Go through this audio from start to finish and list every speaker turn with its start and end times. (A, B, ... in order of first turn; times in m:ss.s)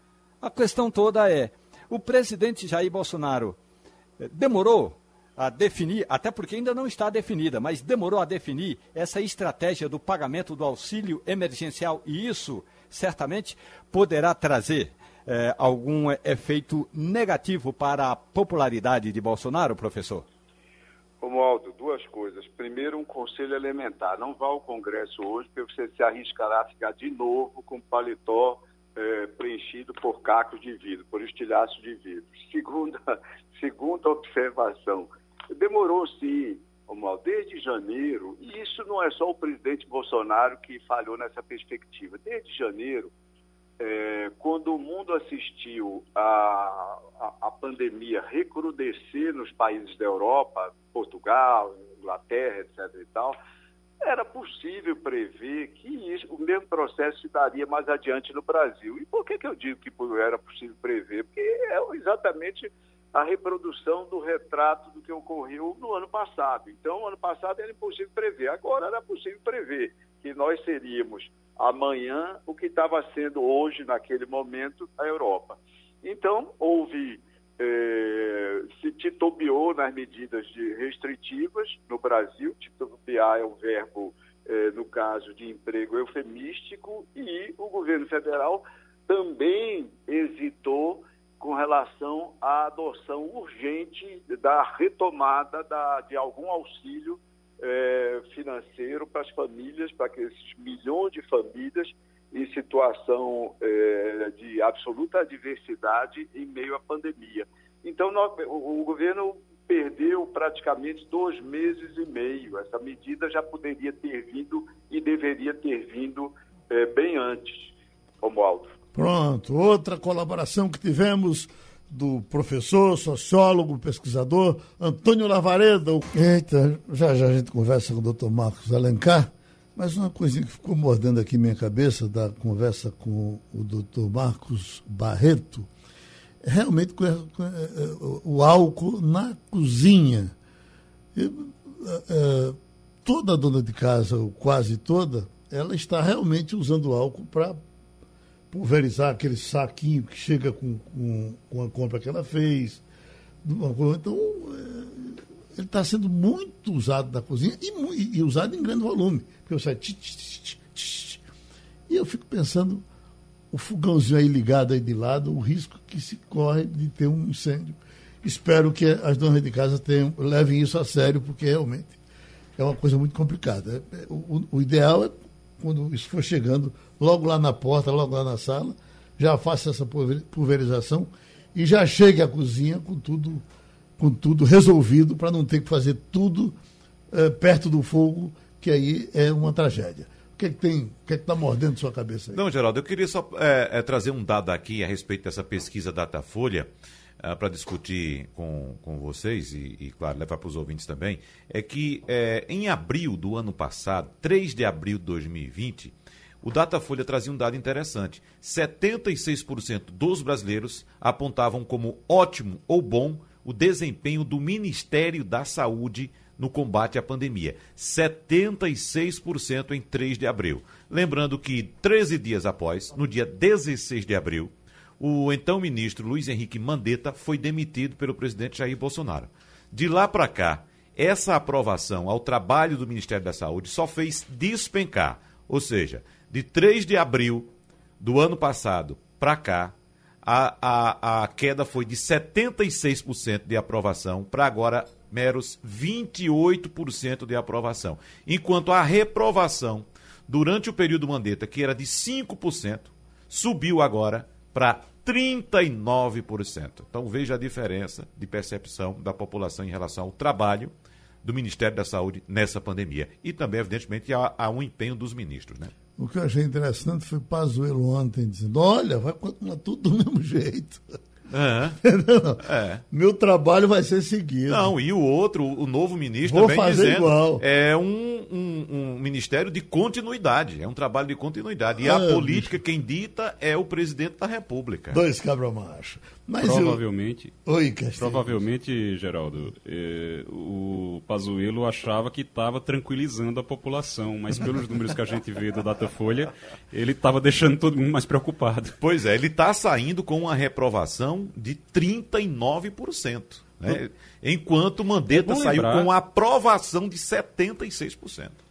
0:00.4-0:03.6 A
0:04.2-0:20.2 A
0:21.2-0:43.1 B
0:43.8-0:53.4 B
0:54.0-1:58.8 B
1:58.9-2:15.7 C
2:16.4-2:20.4 C
2:21.1-2:27.6 C
2:28.5-2:32.8 C
2:33.4-2:41.2 C
2:41.9-2:42.8 C
2:43.5-2:52.0 C
2:52.6-3:03.4 C
3:04.0-3:06.6 C
3:07.1-3:12.4 C
3:12.3-4:20.7 D
4:21.2-4:25.7 D
4:26.0-4:30.9 C
4:31.3-4:31.8 D
4:31.8-4:34.7 C
4:32.4-4:32.8 D
4:34.5-4:45.0 D
4:36.2-4:37.4 C
4:41.8-4:42.6 C
4:44.9-4:46.8 C
4:46.4-4:47.3 E
4:47.5-4:48.4 C
4:48.0-4:58.8 E
4:58.8-5:08.4 D
5:05.1-5:05.9 E